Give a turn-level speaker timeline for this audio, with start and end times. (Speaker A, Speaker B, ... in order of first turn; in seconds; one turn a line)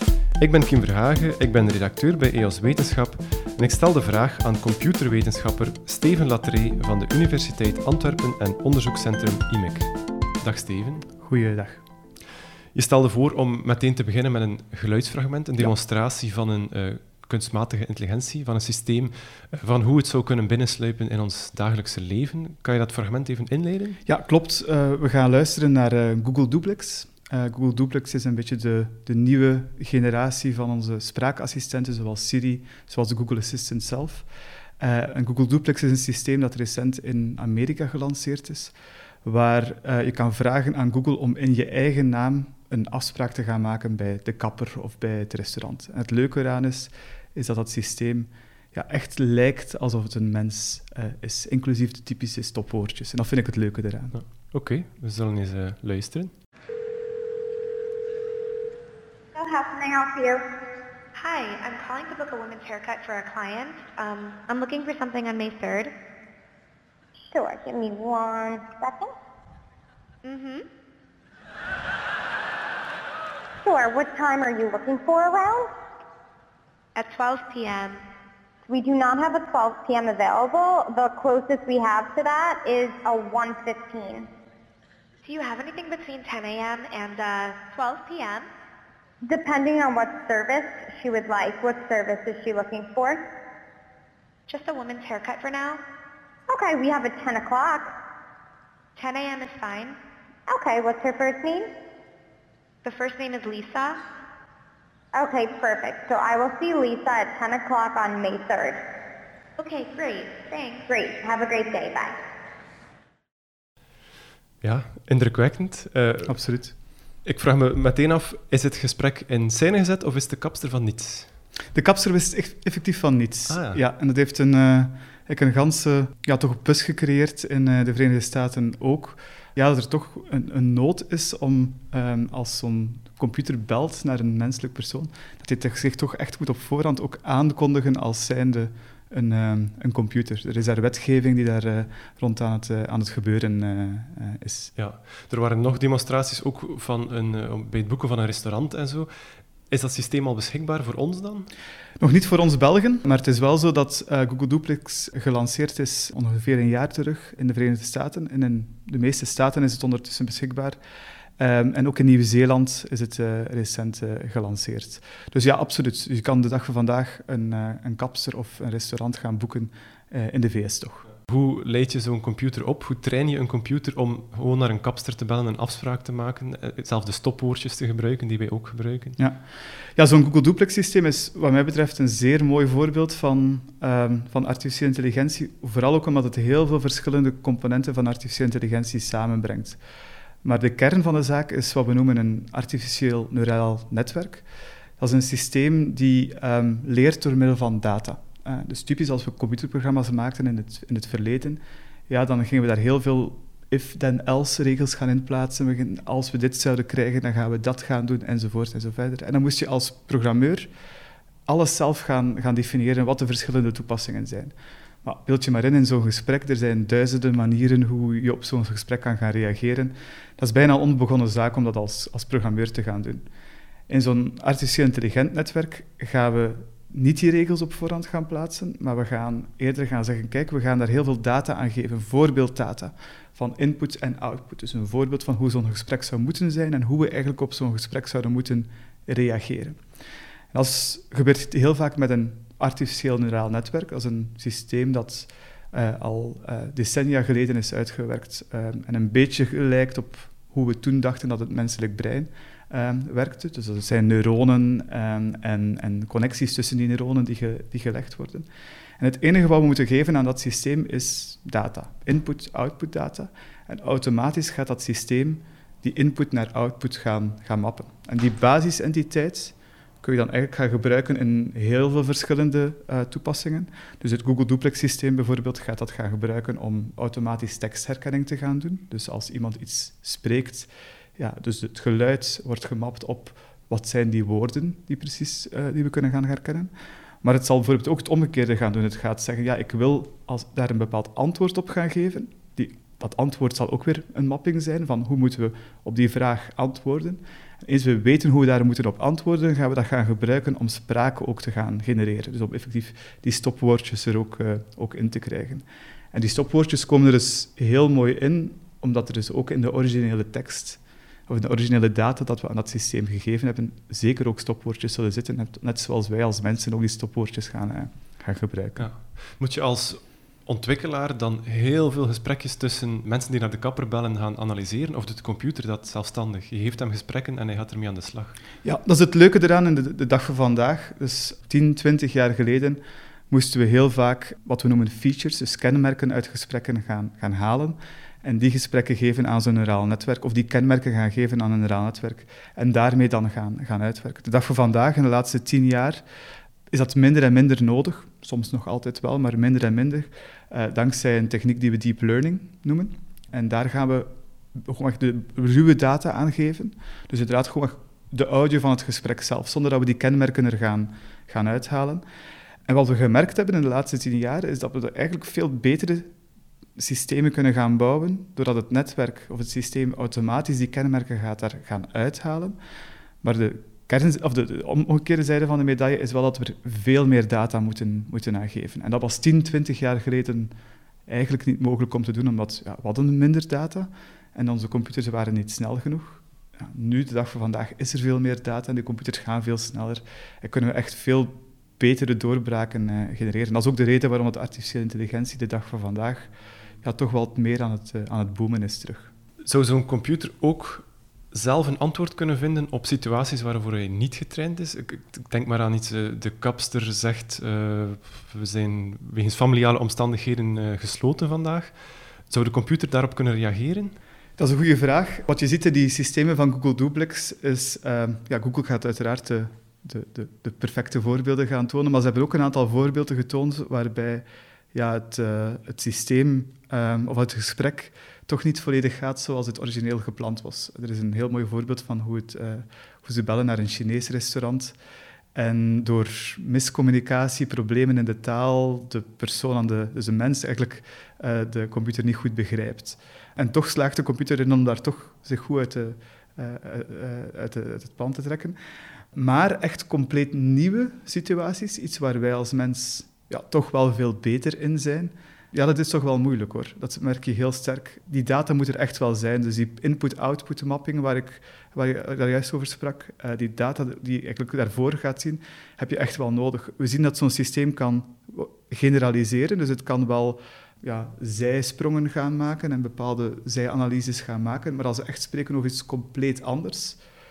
Speaker A: 0.4-11.1
Speaker B: 11.2-11.8
Speaker A: 12.7-24.0
Speaker B: 24.1-34.3
Speaker B: 34.8-38.7
Speaker B: 39.2-54.2
Speaker A: 54.1-56.4
Speaker C: 59.4-60.5
Speaker D: 61.1-65.9
Speaker C: 67.3-69.2
Speaker D: 70.2-70.7
Speaker C: 73.6-75.7
Speaker D: 77.0-78.0
Speaker C: 78.7-84.3
Speaker D: 85.2-88.5
Speaker C: 89.3-93.2
Speaker D: 94.5-95.8
Speaker C: 96.5-97.9
Speaker D: 99.0-100.0
Speaker C: 100.5-101.7
Speaker D: 102.8-104.0
Speaker C: 105.2-108.8
Speaker D: 109.6-110.9
Speaker C: 110.9-112.2
Speaker A: 114.6-116.6
Speaker B: 116.3-116.8
Speaker A: 117.2-121.4
Speaker B: 121.7-144.7
Speaker A: 123.5-123.8
Speaker A: 144.8-151.5
Speaker B: 152.0-160.8
Speaker B: 161.4-171.1
Speaker A: 171.2-179.2
Speaker B: 179.2-179.4
Speaker B: 180.0-189.8
Speaker B: 190.4-194.4
Speaker B: 195.0-210.7
Speaker B: 211.5-223.2
Speaker B: 223.9-239.8
Speaker B: 240.5-258.5
Speaker B: 259.0-286.7
Speaker B: 287.2-318.9
Speaker A: 318.8-328.4
Speaker B: 328.6-346.0
Speaker B: 346.7-362.0
Speaker B: 362.7-366.1
Speaker B: 366.8-372.6
Speaker B: 373.2-380.5
Speaker B: 381.1-396.3
Speaker B: 396.8-399.1
Speaker A: 399.4-414.0
Speaker B: 414.4-434.8
Speaker B: 435.4-448.6
Speaker B: 449.1-477.0